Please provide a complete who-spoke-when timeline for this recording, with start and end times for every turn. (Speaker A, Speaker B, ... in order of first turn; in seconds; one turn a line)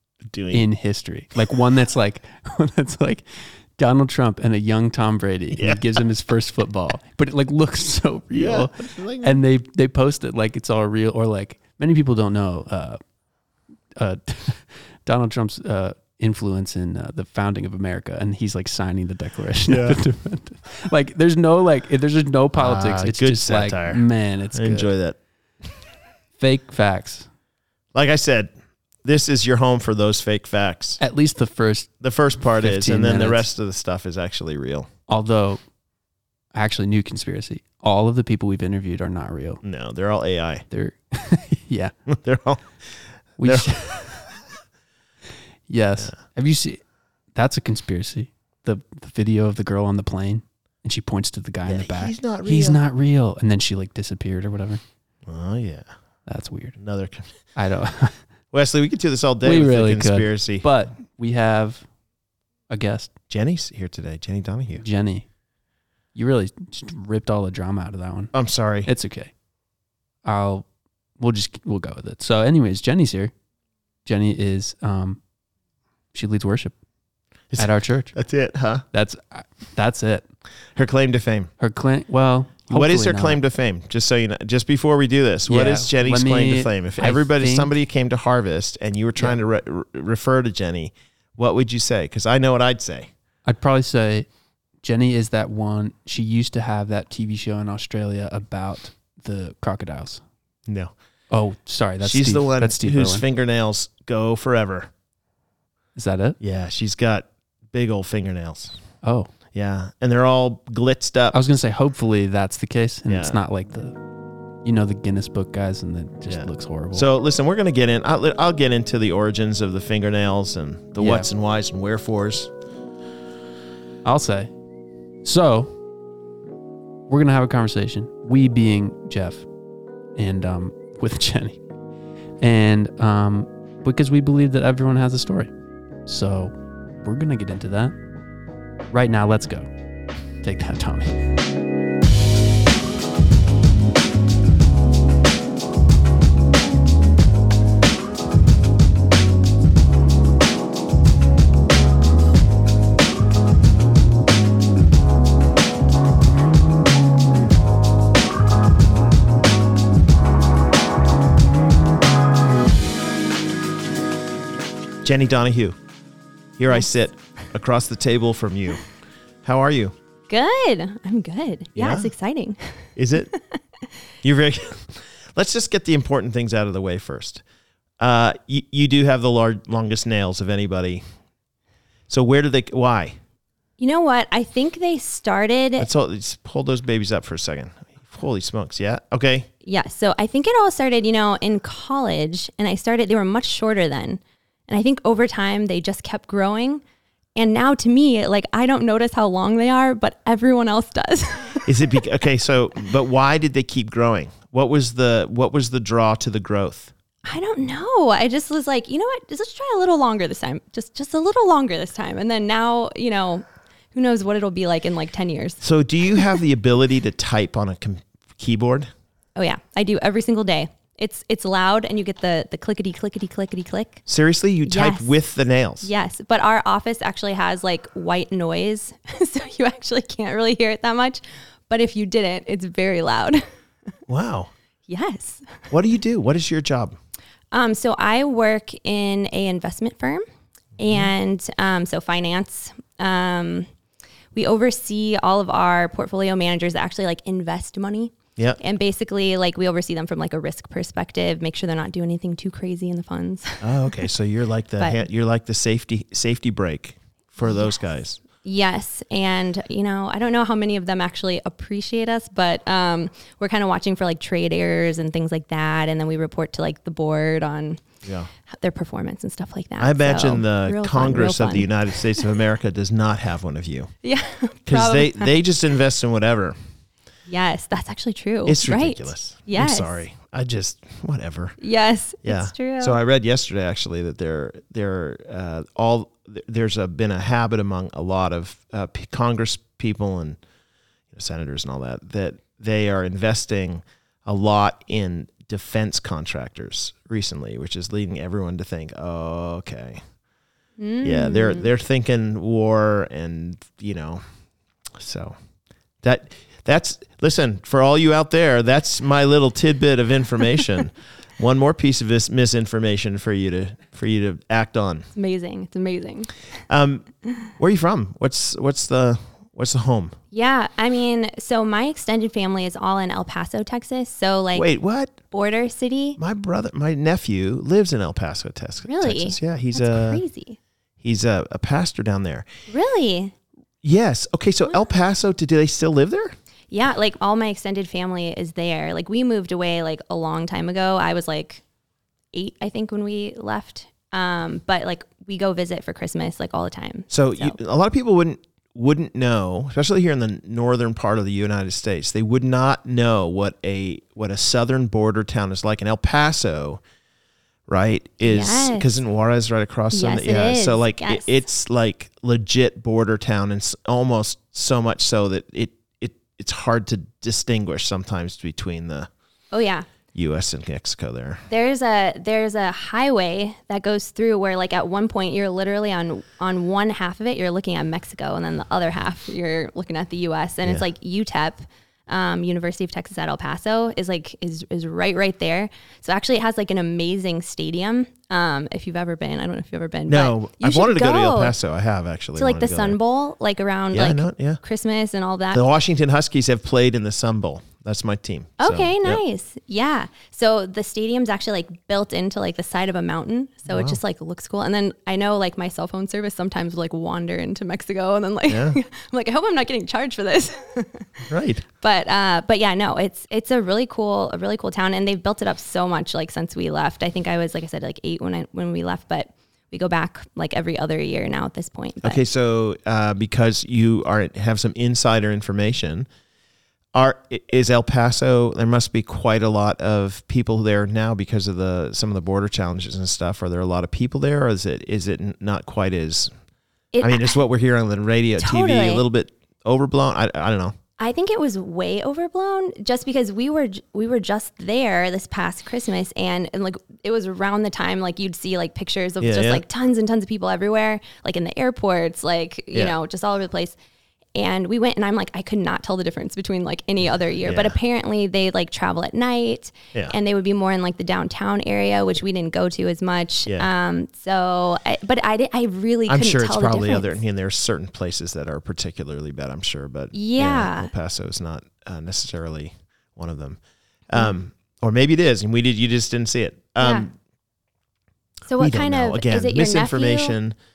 Speaker A: 0.3-0.7
Speaker B: 0.5-13.0
Speaker A: 5.6-6.0
Speaker A: 8.3-9.4
Speaker B: 14.0-24.9
Speaker A: 19.7-20.0
Speaker A: 22.6-25.2
Speaker B: 26.4-27.3
Speaker A: 27.9-28.5
Speaker A: 29.0-31.0
Speaker B: 31.0-33.5
Speaker A: 32.0-34.9
Speaker B: 35.1-35.6
Speaker B: 36.5-39.6
Speaker A: 39.6-40.6
Speaker B: 40.7-41.9
Speaker A: 42.1-42.7
Speaker B: 43.4-44.3
Speaker A: 43.4-43.8
Speaker B: 45.7-46.8
Speaker B: 47.4-54.8
Speaker A: 51.7-52.8
Speaker A: 55.3-55.9
Speaker B: 56.3-56.8
Speaker A: 56.8-57.3
Speaker B: 57.5-58.2
Speaker A: 58.5-60.7
Speaker B: 59.4-61.9
Speaker B: 62.7-63.1
Speaker A: 63.3-64.8
Speaker B: 64.7-65.3
Speaker B: 66.2-68.3
Speaker A: 68.3-68.9
Speaker B: 68.8-69.3
Speaker B: 70.2-70.7
Speaker B: 71.2-73.3
Speaker B: 74.0-75.2
Speaker B: 76.1-76.8
Speaker A: 77.5-78.8
Speaker B: 77.6-78.2
Speaker B: 78.9-80.3
Speaker A: 80.8-81.5
Speaker B: 81.6-83.4
Speaker A: 82.7-93.1
Speaker B: 85.5-87.7
Speaker B: 93.5-94.3
Speaker B: 94.8-100.2
Speaker A: 100.7-100.9
Speaker B: 101.3-103.2
Speaker A: 102.0-104.9
Speaker B: 106.0-106.4
Speaker A: 106.4-108.8
Speaker B: 109.0-109.3
Speaker A: 109.5-111.4
Speaker B: 111.3-114.0
Speaker A: 113.1-113.4
Speaker B: 114.6-117.1
Speaker A: 116.3-122.5
Speaker B: 121.0-121.3
Speaker B: 124.0-124.5
Speaker B: 125.2-125.7
Speaker B: 127.1-129.5
Speaker B: 130.2-131.6
Speaker B: 132.4-135.5
Speaker B: 136.1-137.9
Speaker B: 138.9-139.7
Speaker B: 140.4-141.2
Speaker A: 165.0-165.8
Speaker A: 166.6-168.8
Speaker A: 169.4-169.9
Speaker C: 170.3-172.6
Speaker A: 171.8-172.1
Speaker A: 173.0-173.3
Speaker A: 174.2-177.4
Speaker A: 178.0-181.0
Speaker A: 182.1-183.2
Speaker C: 183.8-185.9
Speaker A: 185.8-189.5
Speaker C: 189.6-196.8
Speaker C: 197.4-201.7
Speaker A: 201.7-206.9
Speaker C: 207.2-215.6
Speaker A: 215.6-218.9
Speaker C: 219.4-224.0
Speaker A: 224.1-225.9
Speaker C: 224.7-225.1
Speaker C: 225.8-233.4
Speaker A: 234.1-234.5
Speaker C: 234.9-235.7
Speaker A: 235.7-237.0
Speaker C: 237.5-240.2
Speaker C: 240.8-243.7
Speaker A: 240.8-241.1
Speaker C: 244.3-254.0
Speaker A: 253.6-258.2
Speaker C: 257.4-257.8
Speaker C: 258.4-267.9
Speaker A: 268.0-268.3
Speaker C: 268.5-272.3
Speaker A: 269.8-273.9
Speaker C: 274.0-275.3
Speaker A: 274.7-276.6
Speaker C: 277.3-280.0
Speaker A: 278.4-281.6
Speaker C: 281.6-283.0
Speaker A: 282.2-290.4
Speaker A: 291.1-300.0
Speaker C: 300.8-301.7
Speaker A: 301.0-304.2
Speaker A: 304.9-305.4
Speaker A: 306.0-315.1
Speaker C: 315.1-316.3
Speaker A: 316.7-317.1
Speaker A: 317.6-320.2
Speaker C: 320.3-324.7
Speaker A: 324.5-325.1
Speaker C: 325.3-326.2
Speaker A: 326.2-330.2
Speaker C: 328.9-330.6
Speaker A: 331.0-332.5
Speaker C: 332.7-333.3
Speaker A: 333.8-336.4
Speaker C: 336.7-341.6
Speaker C: 342.3-347.6
Speaker A: 347.1-356.8
Speaker A: 357.7-369.1
Speaker C: 358.2-358.9
Speaker C: 359.9-361.4
Speaker C: 369.5-369.9
Speaker A: 370.1-371.4
Speaker C: 371.5-391.6
Speaker A: 390.1-393.0
Speaker C: 392.4-395.6
Speaker A: 393.9-394.6
Speaker A: 395.5-399.2
Speaker C: 398.6-411.1
Speaker A: 403.7-404.0
Speaker A: 408.5-408.8
Speaker A: 411.3-411.6
Speaker C: 411.8-422.2
Speaker A: 422.0-426.1
Speaker A: 426.9-436.3
Speaker C: 436.9-437.4
Speaker A: 437.0-440.8
Speaker C: 438.4-439.1
Speaker C: 441.0-453.8
Speaker A: 449.2-449.6
Speaker C: 454.4-467.2
Speaker A: 457.4-457.8
Speaker A: 466.1-477.1
Speaker C: 470.1-470.9
Speaker C: 476.8-477.1
Speaker C: 478.5-480.4
Speaker A: 478.6-480.6